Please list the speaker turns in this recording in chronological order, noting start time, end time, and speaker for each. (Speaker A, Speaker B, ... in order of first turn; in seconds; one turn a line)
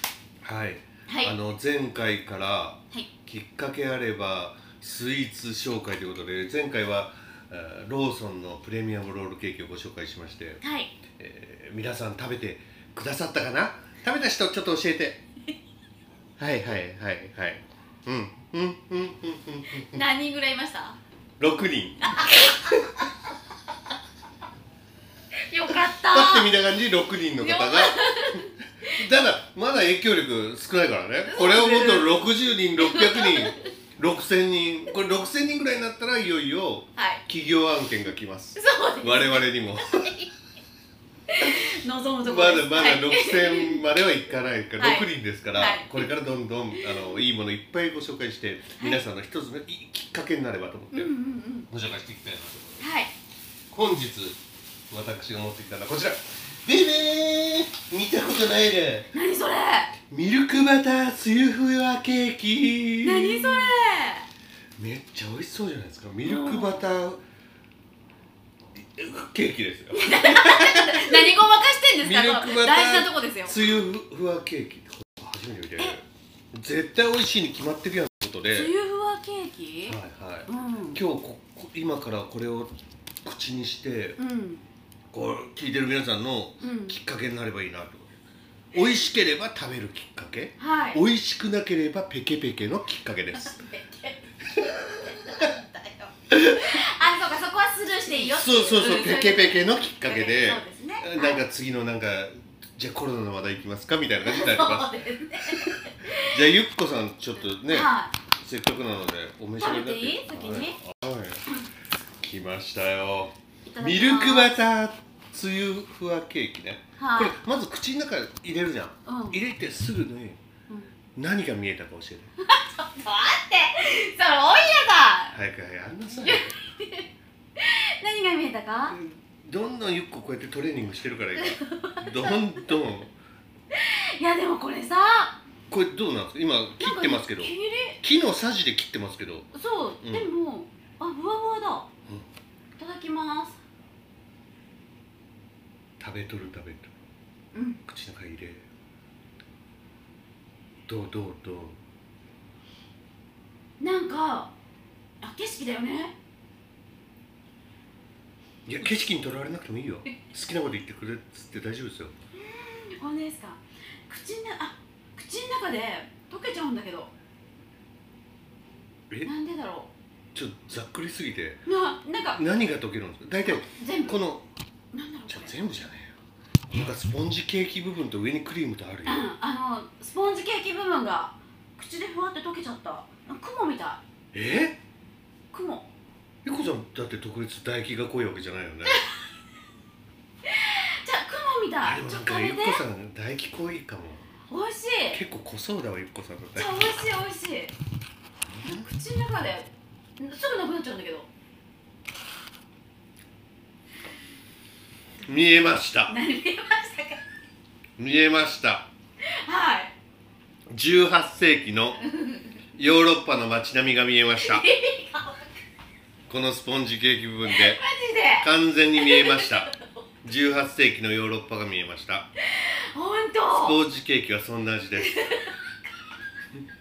Speaker A: 0.4-10.6
Speaker B: 1.1-1.3
Speaker B: 10.6-10.9
Speaker A: 11.1-15.2
Speaker A: 16.4-20.0
Speaker B: 19.8-21.0
Speaker A: 21.4-23.0
Speaker B: 22.1-22.6
Speaker B: 25.5-26.5
Speaker A: 26.1-40.1
Speaker B: 27.4-29.0
Speaker B: 31.3-32.2
Speaker B: 32.8-33.6
Speaker B: 37.0-37.2
Speaker B: 38.5-39.4
Speaker B: 41.3-43.8
Speaker A: 42.2-51.1
Speaker B: 44.8-46.1
Speaker B: 46.8-47.1
Speaker B: 50.9-51.7
Speaker A: 51.7-52.8
Speaker B: 52.8-53.1
Speaker A: 53.7-54.4
Speaker A: 54.9-59.1
Speaker B: 59.1-59.9
Speaker A: 60.1-63.7
Speaker B: 63.0-64.3
Speaker A: 64.8-67.2
Speaker B: 66.2-66.8
Speaker A: 68.8-71.4
Speaker B: 69.9-73.7
Speaker A: 72.0-78.7
Speaker B: 78.5-81.0
Speaker A: 79.8-84.2
Speaker B: 84.2-84.6
Speaker A: 85.1-88.2
Speaker B: 86.6-87.0
Speaker A: 88.7-93.5
Speaker B: 90.6-91.0
Speaker B: 93.4-94.2
Speaker A: 94.6-95.1
Speaker B: 95.0-101.4
Speaker A: 96.3-96.7
Speaker A: 98.1-104.9
Speaker B: 104.2-106.3
Speaker A: 105.4-111.5
Speaker B: 107.5-108.1
Speaker B: 109.6-110.8
Speaker A: 112.2-120.4
Speaker B: 113.7-114.6
Speaker B: 117.0-117.4
Speaker B: 119.0-119.4
Speaker A: 121.2-122.3
Speaker B: 122.5-125.4
Speaker A: 125.3-126.5
Speaker B: 126.2-128.9
Speaker A: 128.9-133.1
Speaker B: 131.4-132.4
Speaker B: 133.7-135.4
Speaker A: 135.7-139.5
Speaker B: 136.8-138.0
Speaker B: 139.5-141.9
Speaker A: 140.0-140.3
Speaker B: 142.8-143.6
Speaker A: 146.0-146.9
Speaker B: 147.5-147.8
Speaker A: 147.8-148.7
Speaker A: 150.9-151.8
Speaker B: 153.8-154.5
Speaker B: 155.2-156.1
Speaker A: 158.7-162.1
Speaker B: 162.3-167.1
Speaker B: 169.2-169.9
Speaker A: 170.3-171.6
Speaker B: 171.7-172.4
Speaker A: 172.3-174.5
Speaker B: 173.4-174.2
Speaker B: 174.9-175.5
Speaker A: 175.3-176.1
Speaker A: 176.7-179.2
Speaker B: 179.0-184.0
Speaker A: 184.3-184.8
Speaker B: 185.5-185.9
Speaker A: 186.4-189.1
Speaker B: 190.4-192.8
Speaker A: 191.8-194.2
Speaker B: 194.5-195.2
Speaker A: 195.1-197.0
Speaker B: 196.6-197.7
Speaker A: 198.5-198.8
Speaker B: 198.6-201.3
Speaker A: 205.2-206.2
Speaker B: 206.1-207.2
Speaker A: 208.0-208.9
Speaker B: 209.3-209.9
Speaker A: 210.7-212.0
Speaker B: 212.0-212.6
Speaker A: 212.7-214.7
Speaker B: 214.4-215.4
Speaker A: 216.3-217.8
Speaker B: 217.4-219.6
Speaker A: 218.4-219.7
Speaker A: 220.2-222.3
Speaker B: 222.5-223.8
Speaker A: 223.5-225.4
Speaker B: 225.0-225.6